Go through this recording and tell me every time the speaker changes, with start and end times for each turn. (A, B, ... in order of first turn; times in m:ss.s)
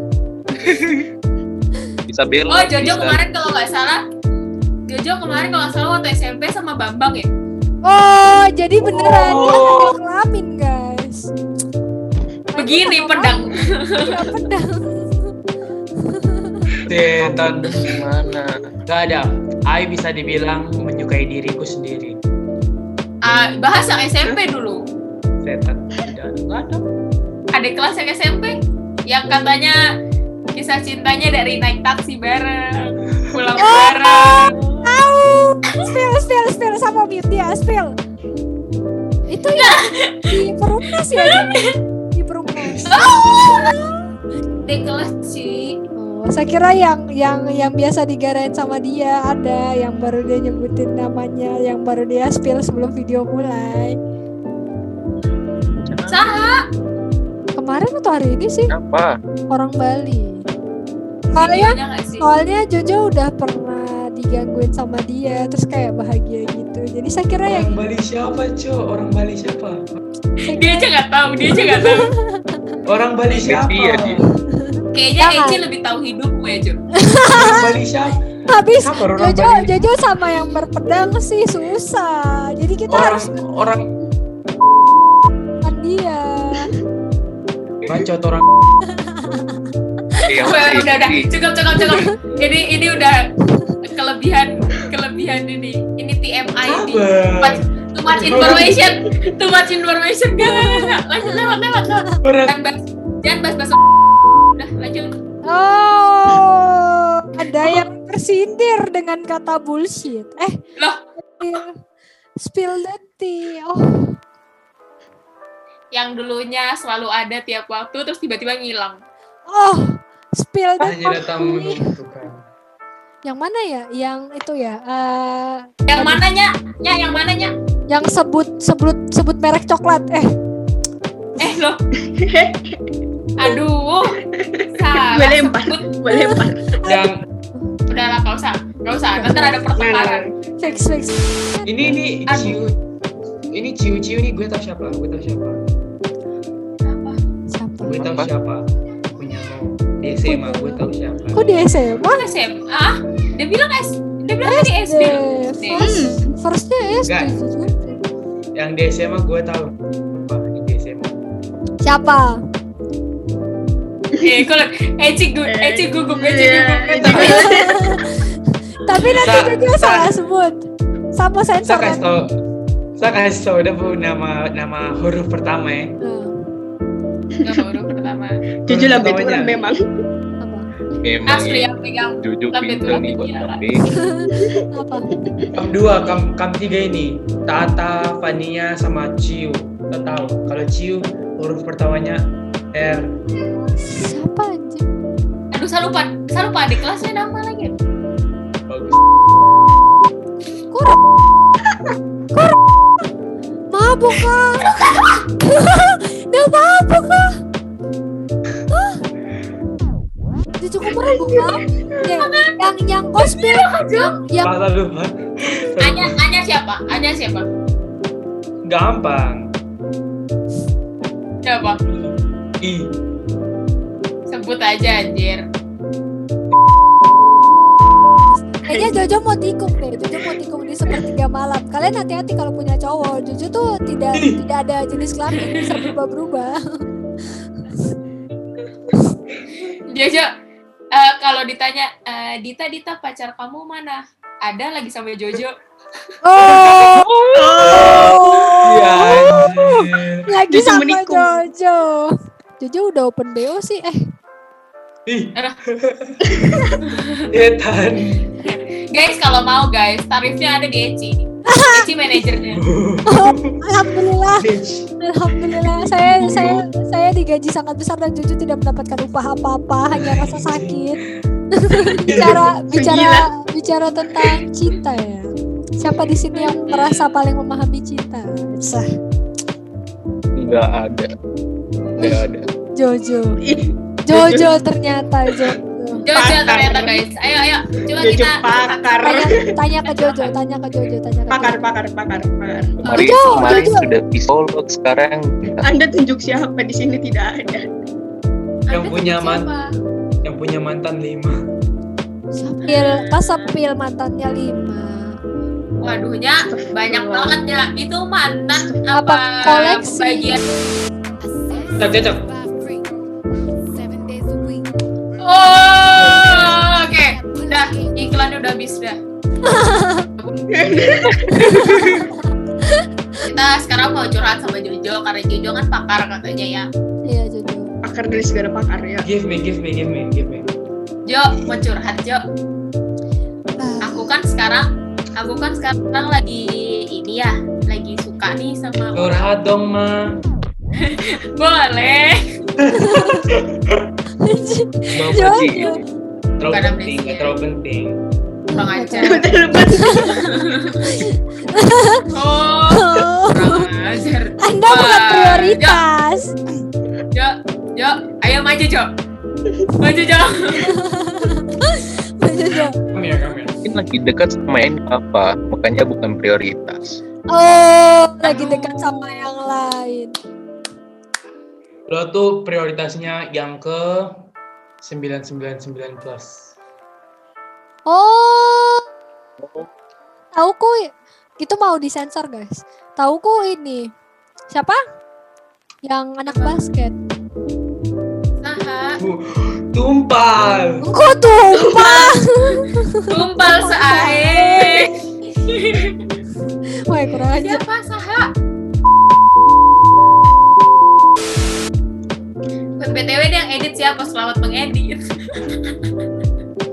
0:00.6-0:01.0 A
0:02.1-0:03.2 A
0:02.5-0:04.0 B
0:04.9-0:07.3 B
0:07.8-0:11.3 C
0:08.9-0:10.0 D
0:12.5-0:15.3 C
0:12.6-0:14.2 B
0:16.0-0:16.8 C
0:16.8-0:18.0 D
0:17.2-0:18.6 A
0:18.9-0:22.2 D
0:23.2-0:24.9 B
0:25.4-0:26.9 D
0:27.5-0:29.8 B
0:30.5-0:34.6 B
0:33.6-0:38.0 C
0:39.3-0:44.8 C
0:39.6-0:40.4 B
0:41.1-0:41.8 B
0:42.7-0:43.1 D
0:42.9-0:43.7 B
0:44.6-0:45.8 B
0:46.0-0:54.0 C
0:55.8-0:56.3 A
0:56.1-0:56.6 B
0:57.6-0:58.7 C
0:58.7-0:59.1 A
0:59.5-1:00.5 C
1:01.3-1:07.7 C
1:01.4-1:02.3 B
1:07.4-1:09.8 D
1:10.4-1:12.1 B
1:10.4-1:10.9 C
1:11.5-1:12.8 C
1:12.8-1:14.2 D
1:13.4-1:14.2 A
1:14.5-1:15.6 C
1:14.9-1:16.8 B
1:17.0-1:17.7 C
1:17.3-1:18.2 D
1:18.5-1:23.3 C
1:18.7-1:19.7 D
1:22.9-1:24.0 D
1:25.6-1:26.7 C
1:27.9-1:28.5 D
1:28.9-1:29.6 C
1:30.3-1:31.3 A
1:30.4-1:33.3 B
1:31.8-1:32.1 C
1:33.8-1:43.8 B
1:36.6-1:38.8 D
1:38.2-1:39.0 E
1:40.4-1:42.2 C
1:42.2-1:42.6 D
1:44.6-1:45.1 B
1:45.5-1:50.6 C
1:51.4-1:51.7 C
1:52.4-1:54.2 C
1:55.9-1:59.0 B
1:59.5-2:01.8 C
2:00.8-2:02.4 D
2:03.3-2:06.2 C
2:05.9-2:07.5 B
2:07.9-2:10.3 C
2:11.4-2:11.8 B
2:12.0-2:12.8 E
2:13.4-2:14.2 B
2:14.3-2:16.8 E
2:14.7-2:15.9 B
2:16.1-2:17.6 C
2:16.8-2:17.2 D
2:17.9-2:20.3 B
2:19.2-2:19.6 C
2:19.8-2:20.3 E
2:20.6-2:22.0 C
2:21.7-2:22.8 D
2:22.3-2:22.6 B
2:23.5-2:25.6 D
2:26.8-2:27.2 B
2:27.5-2:28.0 C
2:27.9-2:31.5 D
2:28.0-2:28.3 A
2:30.2-2:32.3 C
2:32.1-2:35.9 B
2:34.4-2:38.0 C
2:35.8-2:36.3 E
2:37.1-2:37.4 D
2:38.6-2:41.2 D
2:41.8-2:42.4 C
2:44.2-2:44.5 E
2:44.2-2:47.6 B
2:45.5-2:48.1 E
2:46.9-2:47.5 D
2:47.2-2:50.6 C
2:48.9-2:50.2 D
2:51.2-2:52.1 C
2:51.6-2:52.4 D
2:53.0-2:56.0 D
2:56.0-2:56.3 C
2:57.4-2:58.4 B
2:58.7-2:59.6 D
2:58.7-2:59.8 E
3:00.4-3:00.7 C
3:01.0-3:01.7 A
3:01.3-3:03.6 B
3:02.2-3:03.8 A
3:03.9-3:05.2 C
3:04.3-3:04.6 E
3:05.2-3:05.5 E
3:05.5-3:13.1 D
3:13.8-3:14.9 C
3:15.5-3:17.7 B
3:18.7-3:19.0 D
3:20.7-3:21.0 C
3:22.3-3:23.0 C
3:23.7-3:24.7 C
3:24.7-3:25.2 B
3:25.4-3:27.3 C
3:28.7-3:29.0 C
3:30.6-3:34.5 C
3:31.0-3:31.6 E
3:32.2-3:32.6 B
3:33.2-3:34.2 B
3:34.4-3:36.2 D
3:35.8-3:37.5 B
3:38.7-3:39.5 D
3:41.4-3:41.8 B
3:41.9-3:43.0 D
3:44.3-3:45.4 B
3:48.3-3:56.8 C
3:48.7-3:49.0 E
3:54.2-3:54.4 D
3:55.4-3:55.7 B
3:57.7-3:57.9 C
3:59.9-4:00.3 B
4:00.9-4:05.6 B
4:06.2-4:07.1 C
4:06.4-4:10.3 D
4:07.6-4:08.2 E
4:07.6-4:09.6 C
4:10.3-4:14.0 C
4:10.5-4:11.5 E
4:15.1-4:16.7 D
4:16.3-4:16.8 E
4:16.8-4:17.3 B
4:17.3-4:18.3 D
4:18.4-4:22.6 B
4:21.5-4:21.9 C
4:22.5-4:26.6 D
4:23.1-4:24.5 C
4:25.0-4:31.0 C
4:29.9-4:31.0 D
4:31.6-4:38.9 C
4:31.9-4:32.5 D
4:32.1-4:33.3 E
4:36.7-4:37.2 B
4:40.4-4:41.1 A
4:42.0-4:42.5 A
4:42.8-4:43.4 C
4:43.4-4:44.5 E
4:44.1-4:46.0 C
4:46.0-4:50.3 B
4:46.1-4:47.0 E
4:48.0-4:49.4 E
4:49.0-4:51.6 C
4:51.3-4:52.8 E
4:52.8-4:53.9 C
4:52.8-4:55.7 A
4:55.6-4:57.6 E
4:58.7-4:59.7 B
4:58.7-4:59.5 D
5:00.2-5:01.4 D
5:02.3-5:05.2 C
5:02.7-5:03.5 B
5:05.8-5:10.4 B
5:06.4-5:07.4 E
5:08.5-5:08.8 E
5:08.9-5:10.4 C
5:11.8-5:12.3 D
5:15.2-5:19.0 B
5:15.9-5:16.8 D
5:19.4-5:20.1 C
5:20.5-5:21.9 D
5:20.5-5:21.6 E
5:21.4-5:22.1 C
5:22.7-5:23.2 C
5:23.2-5:26.7 B
5:27.1-5:27.7 C
5:27.8-5:29.1 E
5:29.0-5:30.5 D
5:31.1-5:32.2 B
5:33.6-5:34.1 C
5:33.8-5:39.3 B
5:38.9-5:40.2 D
5:40.8-5:42.3 B
5:42.6-5:43.9 D
5:42.7-5:43.3 C
5:44.2-5:45.8 C
5:45.0-5:45.4 D
5:45.1-5:45.8 A
5:46.4-5:48.0 D
5:46.5-5:47.4 B
5:48.5-5:49.3 B
5:48.7-5:52.1 C
5:49.0-5:50.4 E
5:50.1-5:50.8 B
5:52.1-5:55.8 B
5:52.7-5:53.7 C
5:54.4-5:56.4 C
5:57.1-5:58.9 B
5:59.8-6:00.7 B
6:00.6-6:02.8 C
6:02.9-6:03.6 D
6:03.7-6:07.0 A
6:07.3-6:10.1 C
6:11.9-6:14.2 D
6:14.8-6:16.5 D
6:17.9-6:18.9 C
6:20.4-6:23.9 C
6:24.5-6:24.8 C
6:25.8-6:27.0 C
6:26.3-6:26.6 B
6:28.4-6:29.0 B
6:29.0-6:30.8 D
6:30.8-6:34.9 C
6:31.6-6:36.0 B
6:31.8-6:32.0 E
6:36.8-6:37.6 C
6:37.4-6:38.3 B
6:42.8-6:45.0 B